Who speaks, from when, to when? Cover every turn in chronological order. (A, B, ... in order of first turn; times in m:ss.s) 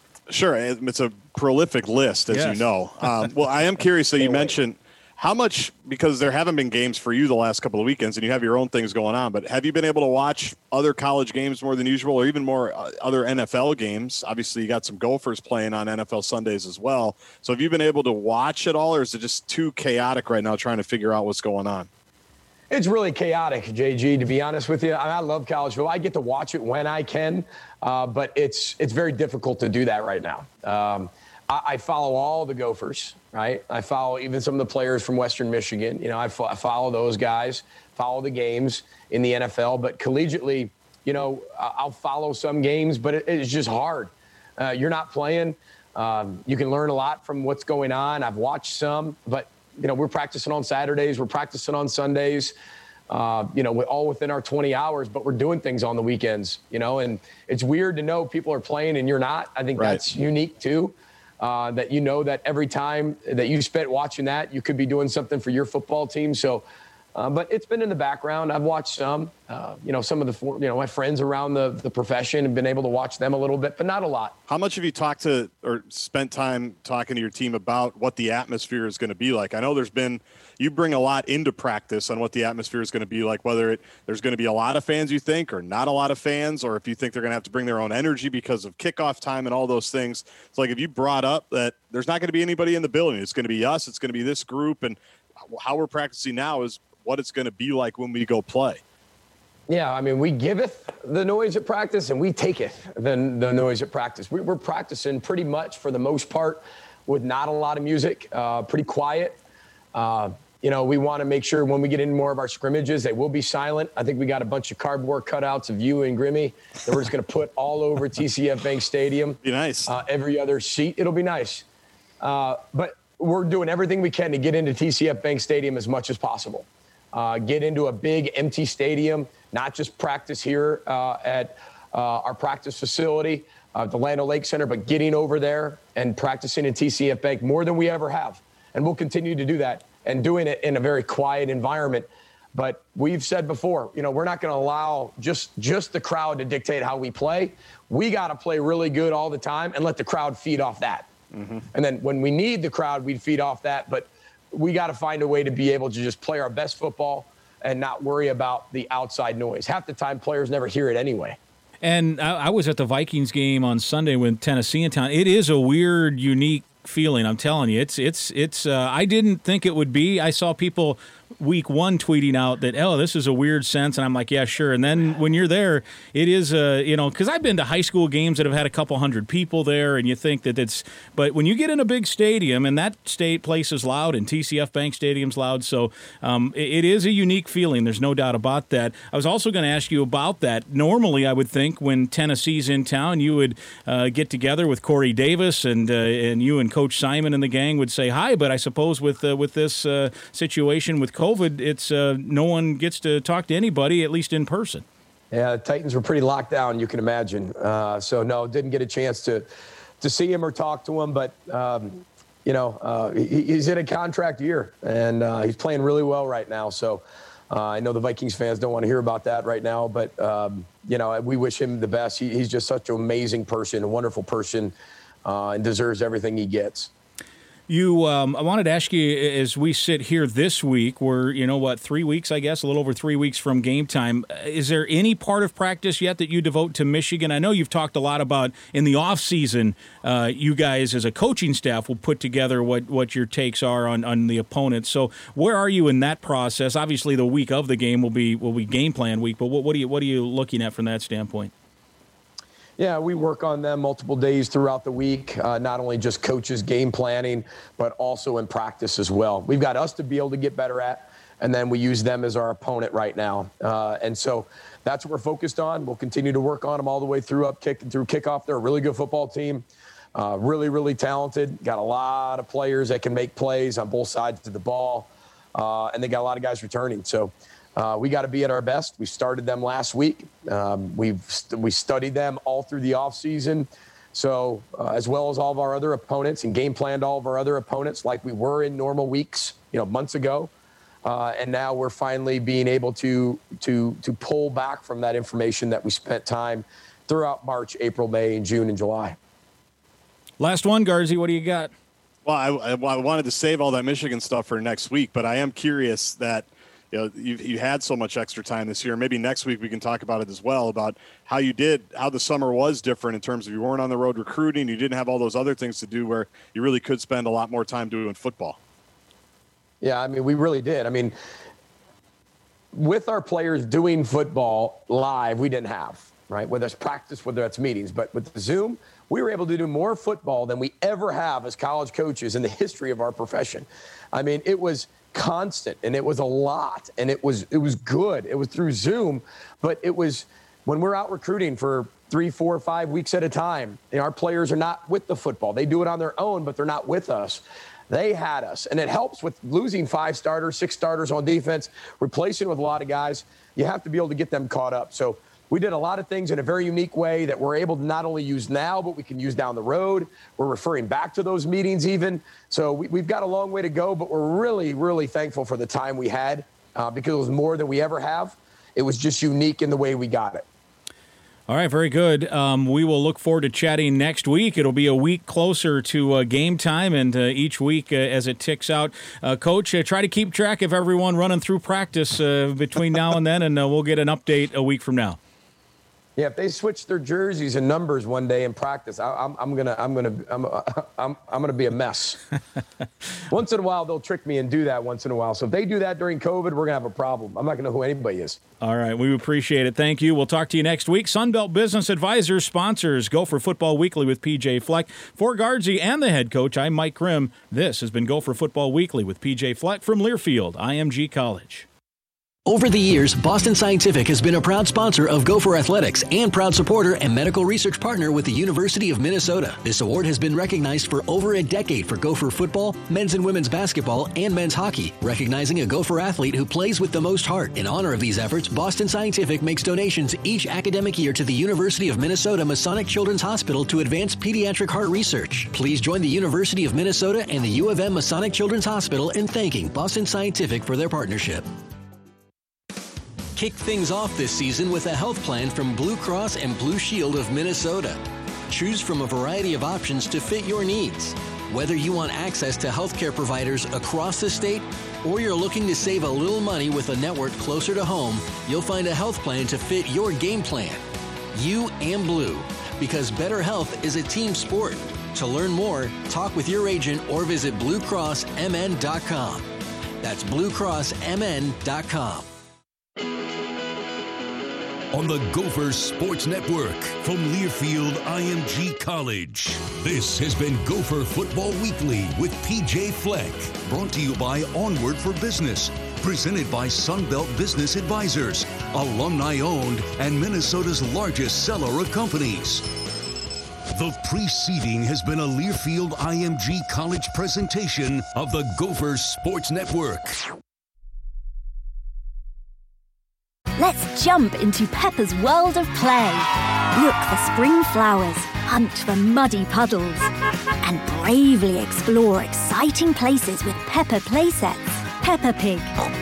0:00.3-0:21.9 A
0:02.3-0:02.7 B
0:04.2-0:04.6 B
0:22.7-0:52.5 C
0:53.1-1:06.6 C
1:07.1-1:14.4 C
1:14.5-1:38.8 A
1:39.7-1:49.4 C
1:49.9-2:01.6 C
1:59.4-1:59.9 A
2:02.2-2:31.1 C
2:31.3-2:31.6 A
2:31.7-2:41.4 C
2:41.8-3:24.8 B
3:25.3-3:29.5 C
3:30.0-3:44.7 C
3:45.2-3:46.9 C
3:47.7-4:11.5 B
4:12.8-4:50.5 C
4:51.0-4:59.2 C
5:00.4-5:01.7 B
5:02.2-5:18.6 A
5:19.8-5:21.1 C
5:22.7-6:10.4 C
6:11.5-6:25.2 B
6:26.2-6:32.2 C
6:33.3-6:38.4 C
6:38.6-6:51.7 B
6:52.4-7:21.4 D
7:23.3-7:40.8 D
7:41.3-7:49.4 D
7:50.0-7:52.2 D
7:54.9-8:12.6 E
8:13.7-8:20.2 E
8:23.6-8:30.1 F
8:30.6-8:35.7 F